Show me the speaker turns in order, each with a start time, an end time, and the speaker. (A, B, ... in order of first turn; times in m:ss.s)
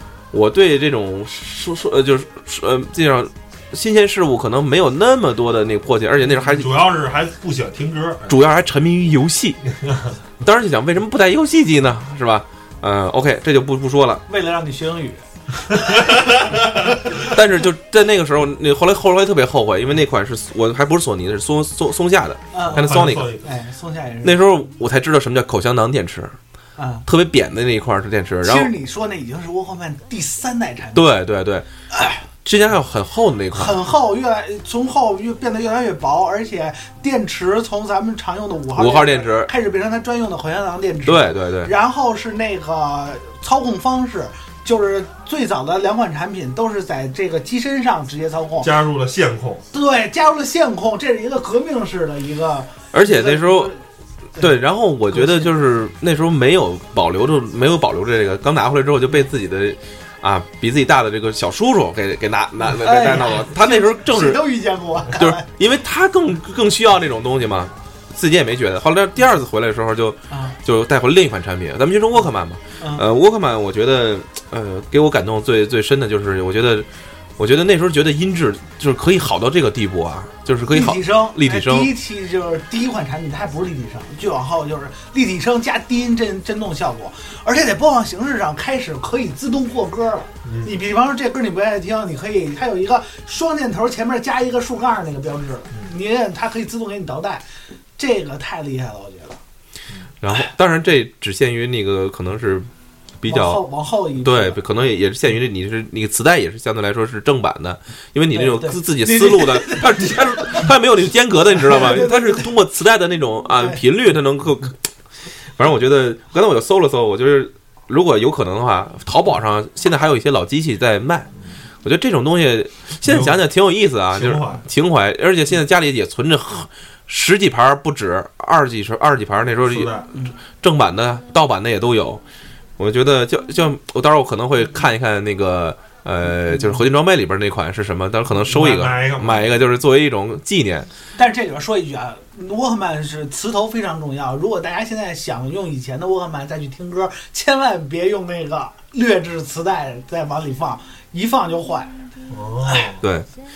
0:00.3-0:06.7 A
0:06.4-0:08.4 B
0:08.3-0:09.6 A
0:09.8-0:10.1 B
0:10.4-0:14.2 A
0:14.3-0:17.3 C
0:15.8-0:17.0 B
0:17.2-0:23.3 A
0:22.5-0:22.9 C
0:22.8-0:23.5 B
0:23.4-0:24.4 C
0:24.2-0:26.4 A
0:26.8-0:27.0 C
0:27.0-0:28.7 A
0:28.4-0:31.1 C
0:30.9-0:31.7 A
0:31.9-0:32.2 C
0:32.4-0:33.8 A
0:33.5-0:48.7 C
0:38.8-0:39.5 A
0:41.0-0:41.7 A
0:48.6-0:49.6 B
0:49.7-0:53.8 C
0:52.9-0:53.7 A
0:54.4-1:04.4 A
0:55.1-0:55.5 C
1:02.8-1:05.5 C
1:05.1-1:16.9 A
1:10.3-1:10.6 C
1:17.4-1:21.9 A
1:20.7-1:37.4 C
1:30.4-1:30.8 B
1:38.0-1:39.4 C
1:40.2-1:42.7 A
1:43.2-1:43.6 A
1:43.3-1:44.6 C
1:44.2-1:54.9 A
1:48.3-1:50.6 C
1:51.6-1:52.4 C
1:55.6-2:01.3 A
2:01.8-2:09.9 A
2:03.0-2:03.4 B
2:04.1-2:04.6 B
2:09.7-2:10.1 B
2:10.6-2:12.2 A
2:12.8-2:20.9 A
2:16.5-2:16.8 C
2:18.4-2:19.5 B
2:21.2-2:31.9 C
2:32.3-2:33.0 B
2:33.0-2:33.3 A